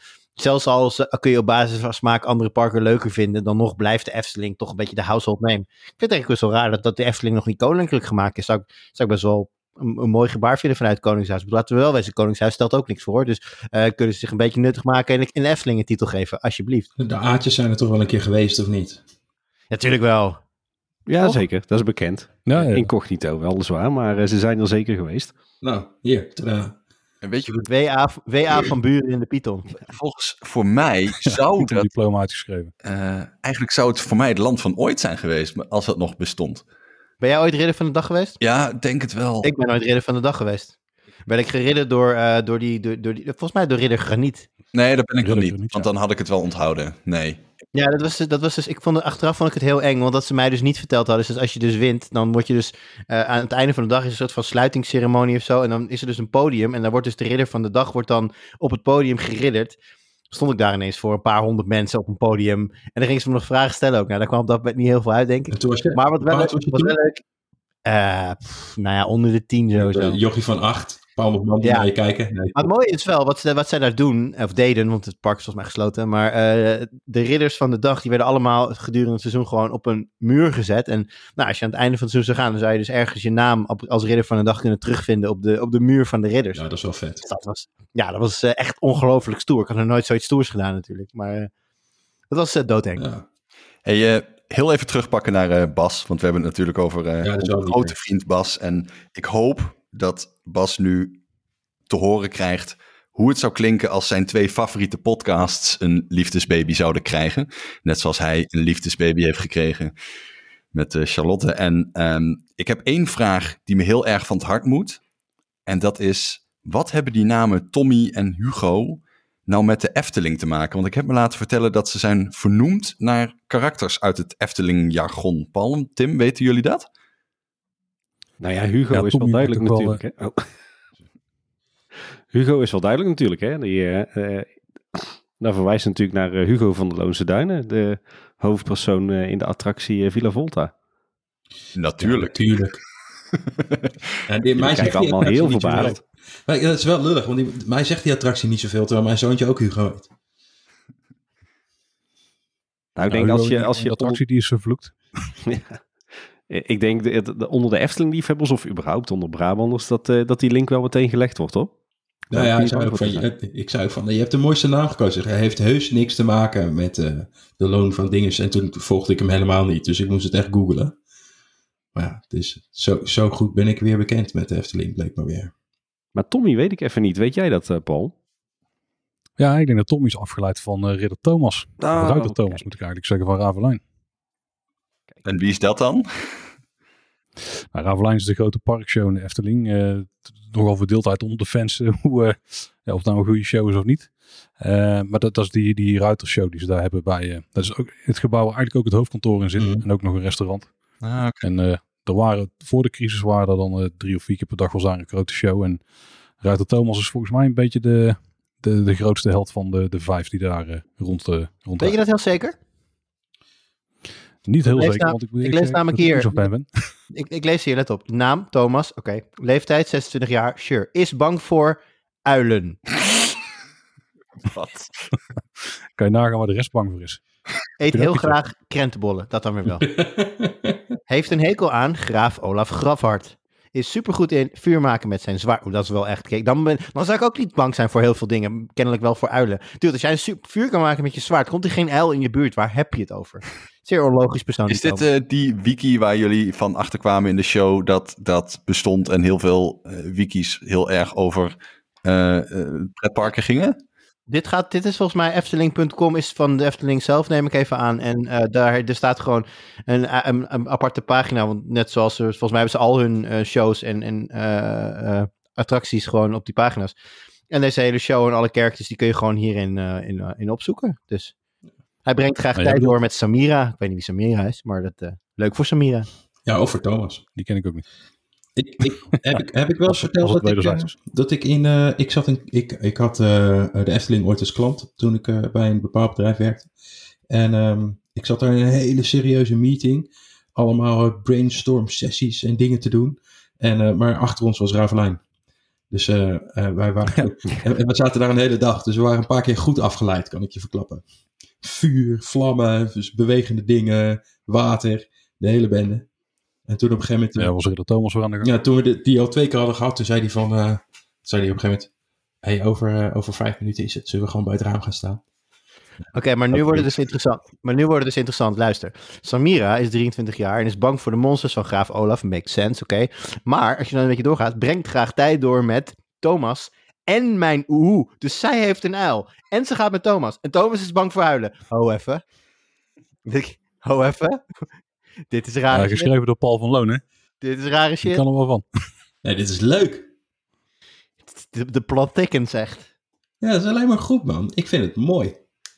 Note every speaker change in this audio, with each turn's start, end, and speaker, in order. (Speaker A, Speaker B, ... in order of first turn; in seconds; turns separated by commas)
Speaker A: 0.4-16.9, Speaker B: 17.0-19.0, Speaker A: 19.7-20.4, Speaker C: 21.1-25.3, Speaker D: 22.5-22.9, Speaker B: 25.6-26.8, Speaker E: 27.2-27.6, Speaker A: 27.6-29.8, Speaker E: 29.9-31.9, Speaker D: 31.2-32.7, Speaker E: 32.8-36.6, Speaker A: 37.2-38.4, Speaker E: 38.4-39.5, Speaker A: 39.4-40.8, Speaker A: 41.3-44.5, Speaker E: 44.7-47.4, Speaker D: 45.2-45.9, Speaker A: 47.7-59.8, Speaker A: 60.3-67.2, Speaker B: 65.5-67.0, Speaker A: 67.8-70.2, Speaker B: 69.8-72.5, Speaker A: 71.6-71.9, Speaker A: 72.5-86.6, Speaker B: 86.5-87.2, Speaker A: 87.2-91.5, Speaker A: 92.3-93.0, Speaker B: 93.0-93.2, Speaker E: 93.9-101.2, Speaker B: 97.2-97.9, Speaker E: 101.9-109.9, Speaker E: 110.7-115.0, Speaker E: 115.7-126.9, Speaker C: 128.4-130.5, Speaker D: 128.9-130.0, Speaker C: 132.3-140.7, Speaker E: 141.7-142.6, Speaker B: 142.0-142.8, Speaker E: 143.3-143.8, Speaker B: 144.3-150.1, Speaker C: 144.6-146.0, Speaker C: 153.0-154.2, Speaker D: 153.1-155.2, Speaker C: 155.5-155.8, Speaker C: 156.5-161.7, Speaker B: 162.3-171.0, Speaker C: 162.3-163.3, Speaker B: 171.9-175.5, Speaker C: 176.1-178.1, Speaker D: 179.4-183.8, Speaker C: 181.8-182.6, Speaker E: 185.2-186.0, Speaker D: 187.7-200.7, Speaker B: 199.6-199.8, Speaker E: 201.0-201.4, Speaker D: 201.4-205.8, Speaker D: 206.4-212.0, Speaker A: 211.8-212.5, Speaker D: 214.4-216.9, Speaker A: 214.6-216.5, Speaker A: 217.1-222.8, Speaker E: 224.4-225.1, Speaker D: 226.0-227.2, Speaker A: 227.8-229.9, Speaker D: 227.9-228.4, Speaker B: 230.0-230.7, Speaker A: 231.1-245.0, Speaker E: 244.7-253.8, Speaker A: 254.3-266.9, Speaker A: 267.5-271.3, Speaker A: 272.0-276.1, Speaker D: 272.6-273.0, Speaker B: 276.5-277.2, Speaker D: 277.4-277.8, Speaker B: 278.6-286.7, Speaker D: 279.9-280.9, Speaker B: 287.3-295.2, Speaker B: 295.9-301.0, Speaker B: 301.6-306.1, Speaker B: 306.7-307.5, Speaker D: 307.4-308.5, Speaker B: 308.4-311.9, Speaker B: 312.4-315.2, Speaker A: 316.1-332.2, Speaker B: 316.5-316.9, Speaker A: 333.2-334.4, Speaker A: 335.3-336.1, Speaker D: 335.7-337.0, Speaker A: 337.4-338.2, Speaker D: 338.0-338.6, Speaker B: 339.2-340.1, Speaker A: 341.2-342.9, Speaker B: 343.4-345.4